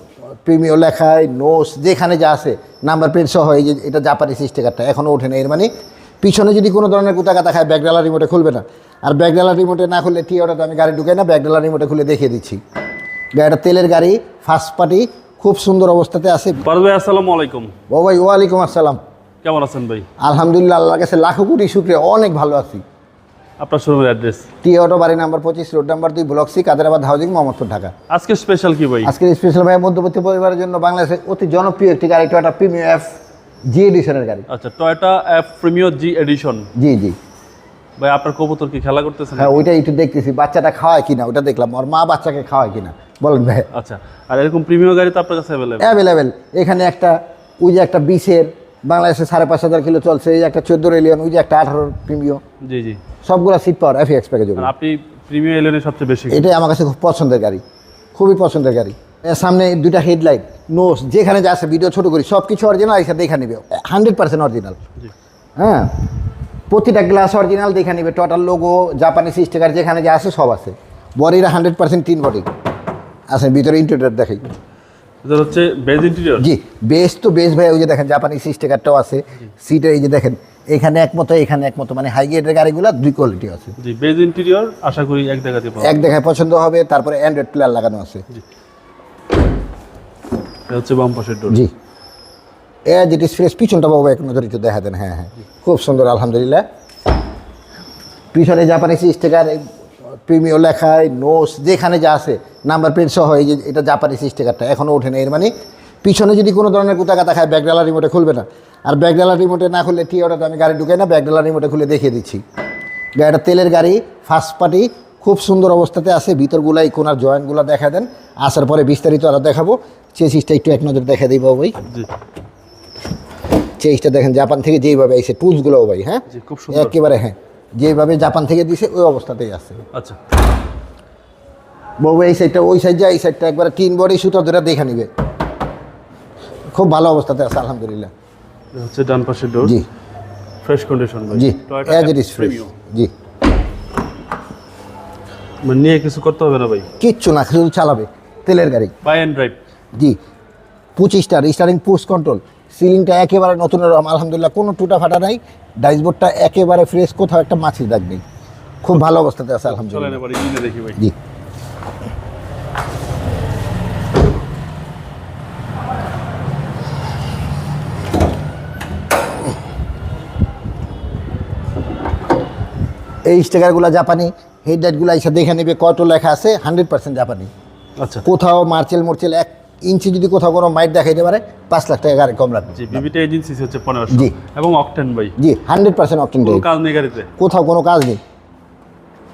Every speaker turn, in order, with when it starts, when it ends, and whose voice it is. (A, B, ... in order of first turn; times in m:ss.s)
0:00.4-0:05.7 A
0:06.2-0:12.6 A
0:13.3-0:16.6 A
0:16.6-0:17.7 B
0:17.9-0:19.0 A
0:19.4-0:20.1 B
0:20.2-0:22.8 A
0:23.6-0:24.5 B
0:24.6-0:27.9 A
0:28.1-0:29.1 B
0:29.0-0:33.1 A
0:33.7-0:34.5 A
0:34.5-0:36.7 B
0:36.8-0:37.2 A
0:38.0-0:39.6 B
0:39.4-0:43.7 A
0:43.7-0:45.9 B
0:45.8-0:52.4 A
0:52.6-0:53.0 B
0:53.2-0:54.7 A
0:54.6-0:56.5 B
0:56.3-0:57.6 A
0:58.1-1:04.8 A
1:05.6-1:06.0 A
1:06.7-1:12.5 A
1:13.3-1:14.4 A
1:15.2-1:16.5 B
1:16.4-1:23.8 A
1:23.8-1:26.1 B
1:25.8-1:28.2 A
1:30.7-1:31.6 B
1:32.8-1:36.6 A
1:38.3-1:39.6 A
1:40.2-1:45.5 A
1:46.0-1:52.4 A
1:53.2-2:01.8 A
2:03.8-2:09.8 A
2:06.3-2:07.0 B
2:09.9-2:10.2 B
2:12.0-2:15.1 A
2:16.7-2:18.1 A
2:18.7-2:19.8 B
2:20.6-2:22.7 B
2:21.3-2:23.1 A
2:25.6-2:26.9 B
2:27.0-2:28.9 A
2:29.0-2:29.6 B
2:31.0-2:38.2 A
2:38.8-2:40.2 A
2:39.6-2:41.0 B
2:53.2-2:57.5 A
2:58.0-2:58.2 B
2:58.2-3:03.0 A
3:02.8-3:05.4 B
3:05.4-3:06.6 A
3:06.4-3:07.3 B
3:07.4-3:08.2 A